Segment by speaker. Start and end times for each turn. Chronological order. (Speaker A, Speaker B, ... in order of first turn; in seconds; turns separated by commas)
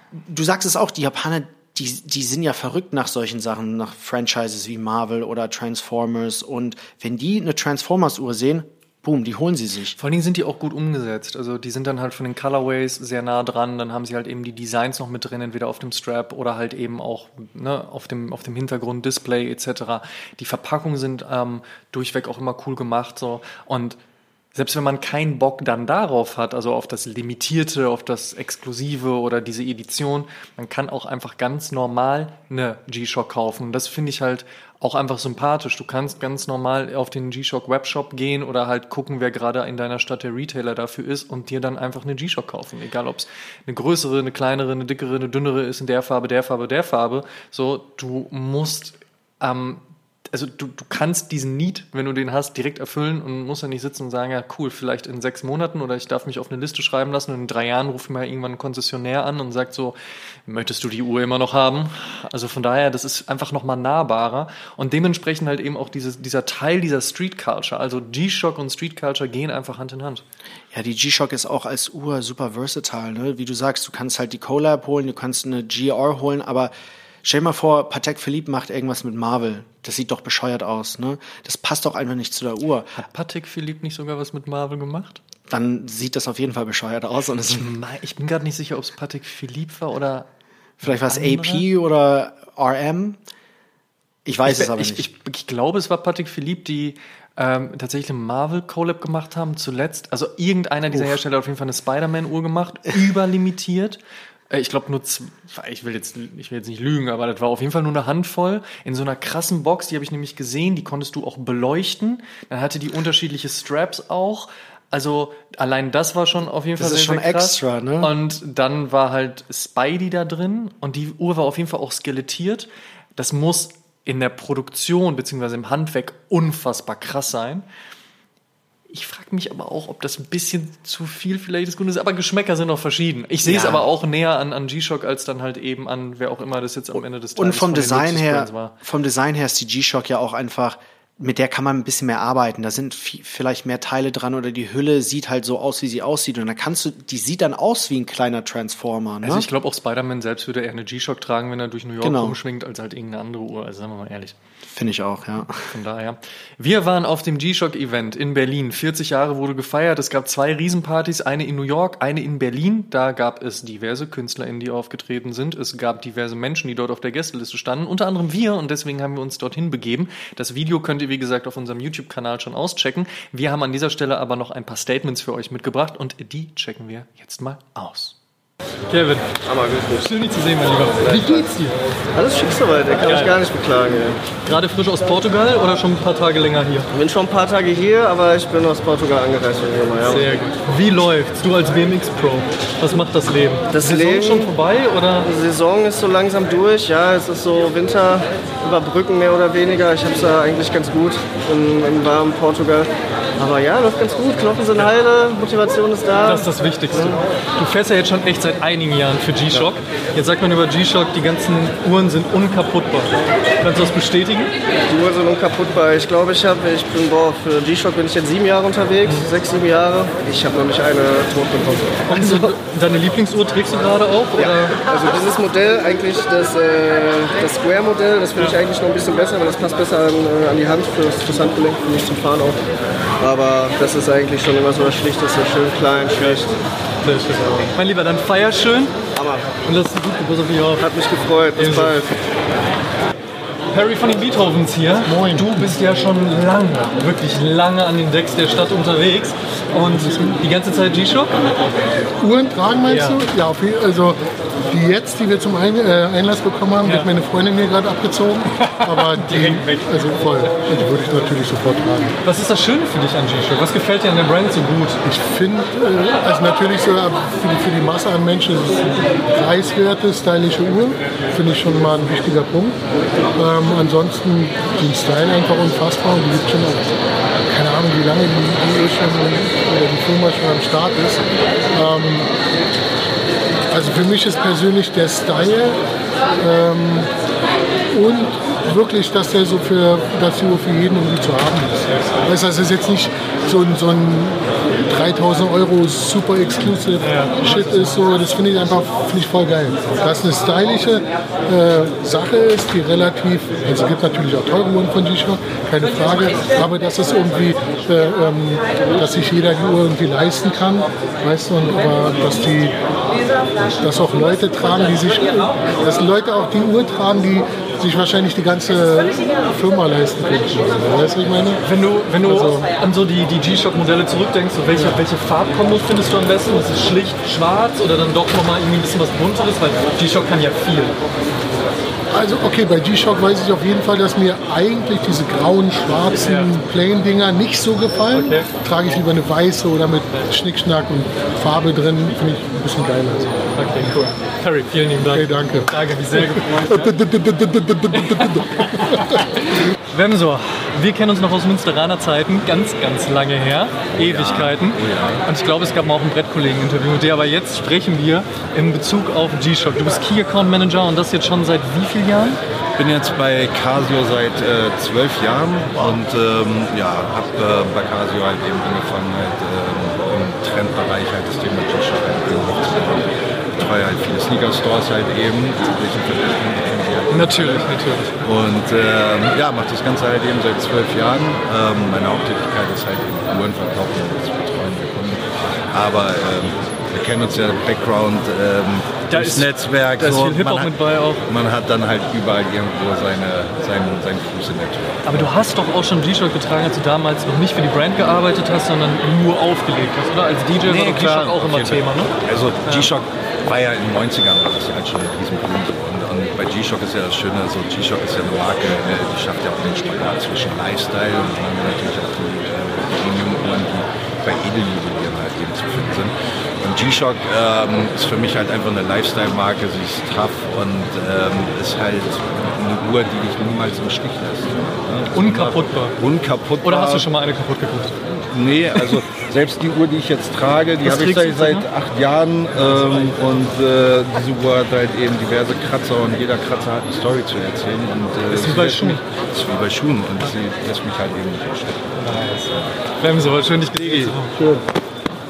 Speaker A: 0.1-10.0, Speaker B: 10.0-24.0, Speaker B: 24.6-60.0, Speaker B: 60.5-70.2, Speaker A: 70.7-76.7, Speaker A: 77.2-82.9, Speaker B: 82.9-85.2, Speaker A: 85.5-87.7, Speaker B: 87.5-90.3, Speaker B: 90.8-91.7, Speaker A: 90.8-93.2, Speaker A: 94.2-95.1, Speaker B: 94.5-104.0, Speaker B: 104.5-127.7, Speaker A: 116.8-118.1, Speaker B: 128.9-138.8, Speaker A: 133.4-133.9, Speaker A: 137.4-149.5, Speaker B: 149.2-154.3, Speaker A: 152.0-152.4, Speaker A: 154.7-155.7, Speaker B: 155.6-178.2, Speaker B: 178.9-179.4, Speaker C: 179.4-180.1, Speaker B: 179.9-181.8, Speaker C: 181.1-181.5, Speaker C: 182.2-184.2, Speaker B: 183.0-183.4, Speaker B: 184.4-186.9, Speaker C: 186.9-190.3, Speaker B: 190.1-195.3, Speaker C: 193.7-194.5, Speaker C: 195.2-207.2, Speaker B: 206.2-214.5, Speaker C: 214.9-222.5, Speaker B: 222.1-224.8, Speaker C: 224.4-236.6, Speaker B: 237.0-239.0, Speaker C: 239.2-239.5, Speaker B: 239.6-240.8, Speaker C: 240.8-242.2, Speaker B: 241.6-242.0, Speaker B: 243.7-251.4, Speaker D: 245.1-245.7, Speaker D: 250.1-250.3, Speaker D: 252.2-262.2, Speaker B: 252.9-253.2, Speaker B: 256.8-257.1, Speaker B: 258.6-260.2, Speaker B: 262.2-265.0, Speaker D: 265.0-272.8, Speaker D: 273.4-281.2, Speaker D: 281.7-282.3, Speaker D: 283.7-285.8, Speaker D: 286.4-287.1, Speaker D: 287.9-312.8, Speaker B: 297.0-298.0, Speaker D: 313.8-321.6, Speaker B: 321.6-330.9, Speaker D: 322.2-322.7, Speaker D: 332.1-343.5, Speaker B: 336.2-336.6, Speaker B: 338.1-338.5, Speaker B: 343.6-347.0, Speaker D: 345.0-349.3, Speaker B: 347.9-349.3, Speaker B: 349.9-362.4, Speaker E: 353.9-355.2, Speaker E: 362.8-377.6, Speaker B: 377.1-378.2, Speaker E: 378.2-390.7, Speaker B: 389.1-391.2, Speaker E: 391.3-395.4, Speaker B: 395.1-402.1, Speaker E: 400.6-427.1, Speaker B: 425.1-426.0, Speaker B: 426.6-428.0, Speaker E: 428.1-441.9, Speaker B: 430.8-431.7, Speaker B: 438.3-439.0, Speaker B: 442.0-444.4